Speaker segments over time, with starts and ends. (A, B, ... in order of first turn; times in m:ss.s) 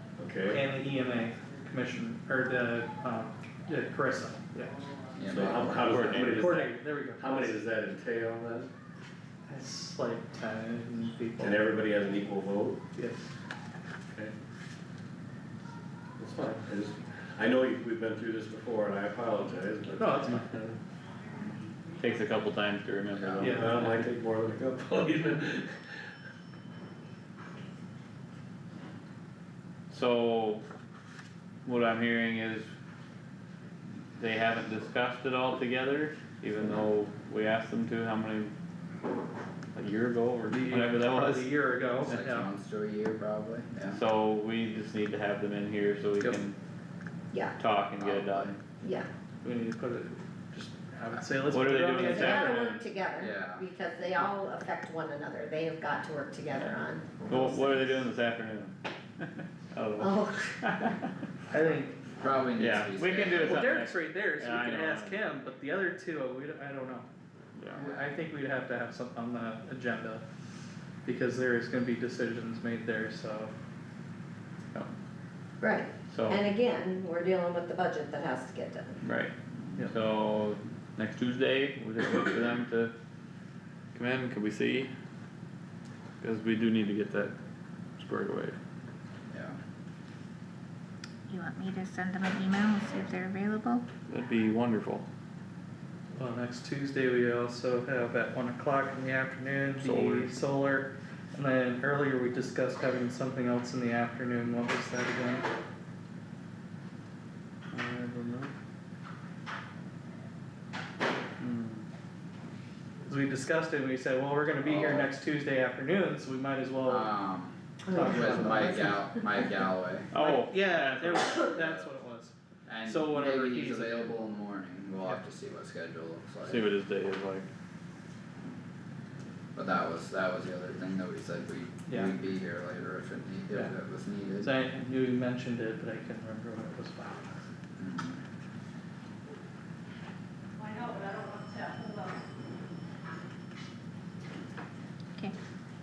0:00.2-0:00.6 A
0:00.5-0:04.7 B
0:05.2-0:06.1 C
0:05.3-0:08.7 A
0:05.8-0:06.7 D
0:06.2-0:07.6 B
0:09.5-0:11.6 B
0:11.4-0:12.8 A
0:13.0-0:13.3 B
0:16.2-0:20.8 A
0:20.0-0:20.5 B
0:22.0-0:23.8 D
0:23.2-0:23.4 C
0:23.4-0:25.8 A
0:23.4-0:23.7 B
0:29.9-0:30.6 D
0:31.6-0:32.7 D
0:34.2-0:38.5 D
0:39.8-0:41.6 D
0:40.5-0:42.5 B
0:42.0-0:44.0 C
0:43.9-0:46.6 D
0:47.6-0:48.6 D
0:48.0-0:48.5 C
0:48.8-0:49.1 E
0:49.4-0:52.8 B
0:51.5-0:52.8 D
0:52.0-0:57.9 E
0:53.2-0:53.6 C
0:56.5-1:01.0 D
1:00.0-1:00.7 E
1:01.5-1:02.0 B
1:02.2-1:03.7 C
1:02.6-1:05.3 D
1:03.4-1:07.1 B
1:07.6-1:07.8 D
1:07.7-1:10.2 B
1:11.0-1:13.5 B
1:15.6-1:19.0 E
1:16.1-1:16.4 D
1:19.0-1:22.9 D
1:23.9-1:24.9 D
1:26.2-1:27.3 D
1:28.0-1:28.6 D
1:29.3-1:29.6 C
1:31.3-1:33.9 F
1:34.1-1:35.0 D
1:36.2-1:45.5 B
1:39.8-1:40.3 D
1:47.7-1:48.5 D
1:51.4-1:51.8 D
1:53.1-1:57.1 B
1:54.6-1:55.1 C
1:56.8-2:00.1 C
1:57.9-1:59.5 E
1:57.9-1:59.0 B
2:00.1-2:01.5 D
2:00.2-2:02.3 B
2:01.3-2:02.0 C
2:02.7-2:06.7 C
2:02.9-2:04.1 B
2:06.4-2:07.5 D
2:09.6-2:14.5 C
2:11.9-2:12.2 B
2:14.4-2:17.3 B
2:17.8-2:18.2 C